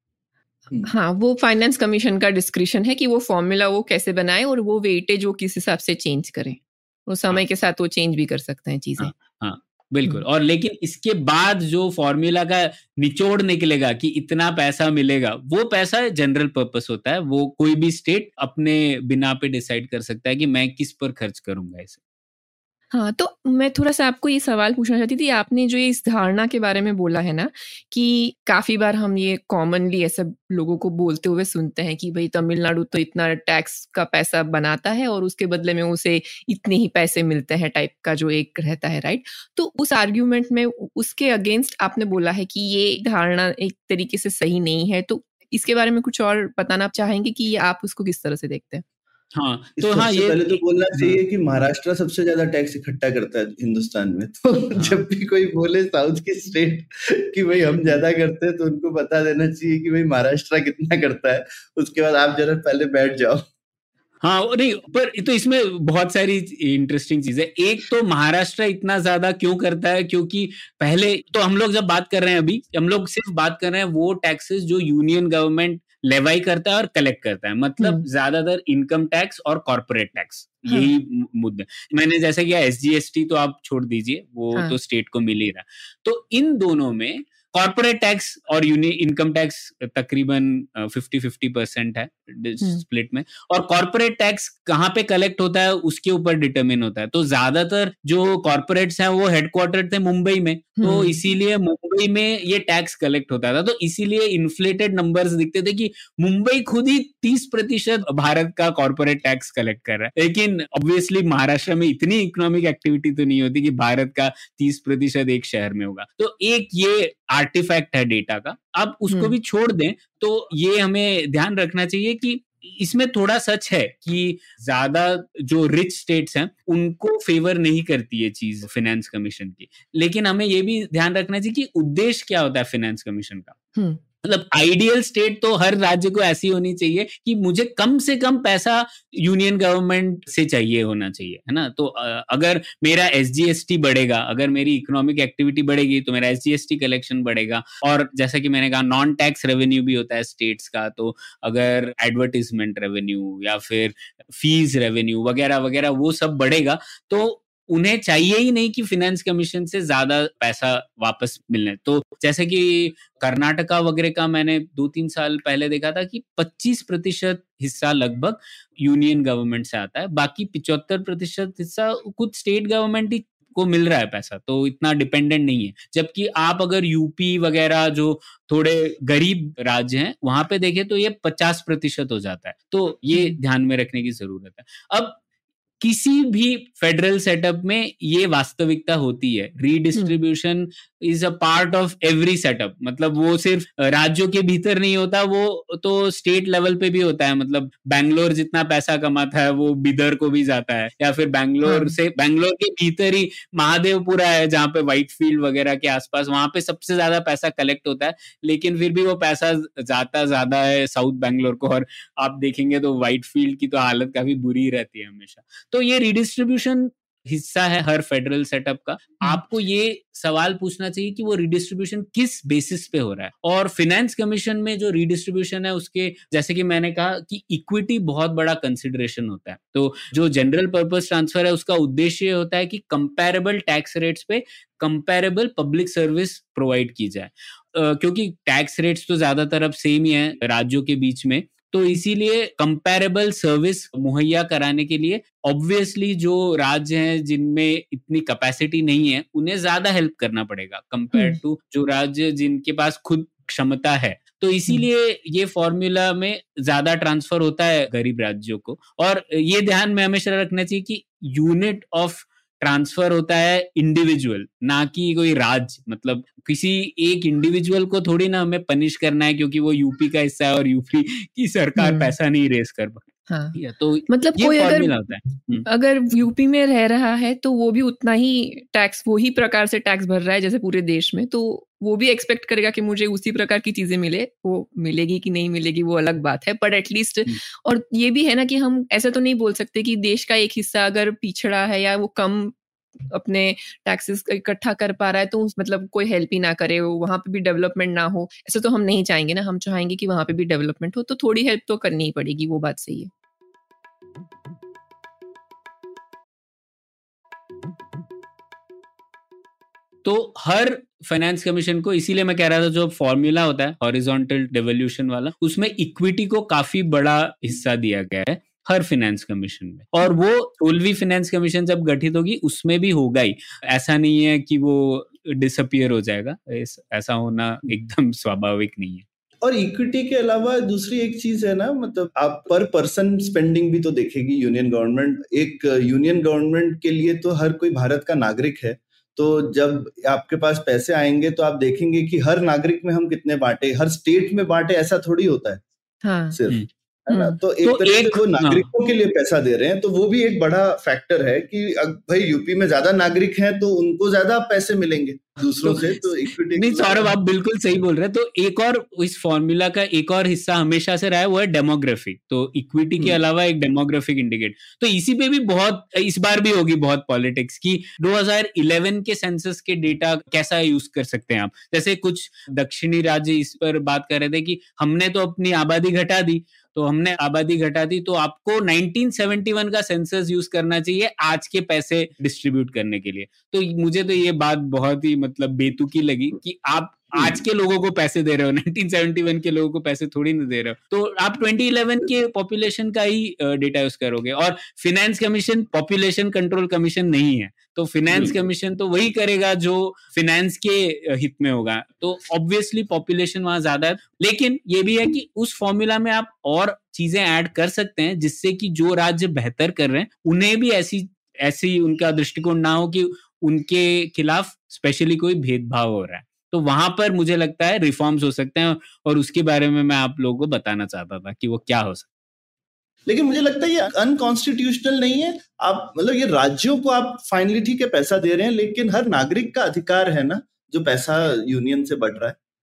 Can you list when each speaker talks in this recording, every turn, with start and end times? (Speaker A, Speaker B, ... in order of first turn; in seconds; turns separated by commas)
Speaker A: 0.8-9.1, Speaker B: 9.0-22.0, Speaker A: 22.9-48.8, Speaker B: 49.4-51.2, Speaker C: 49.8-63.4, Speaker B: 64.2-133.6, Speaker A: 100.8-101.2, Speaker B: 134.2-185.2, Speaker B: 185.8-275.7, Speaker A: 201.7-201.9, Speaker A: 271.8-272.1, Speaker A: 273.3-273.6, Speaker A: 274.1-274.9, Speaker A: 275.7-292.6, Speaker A: 293.1-303.1, Speaker B: 310.1-329.1, Speaker C: 329.4-345.6, Speaker A: 346.0-346.4, Speaker C: 346.3-357.1, Speaker A: 347.1-347.4, Speaker B: 347.6-348.7, Speaker B: 355.6-355.9, Speaker B: 356.6-422.1, Speaker C: 423.1-432.4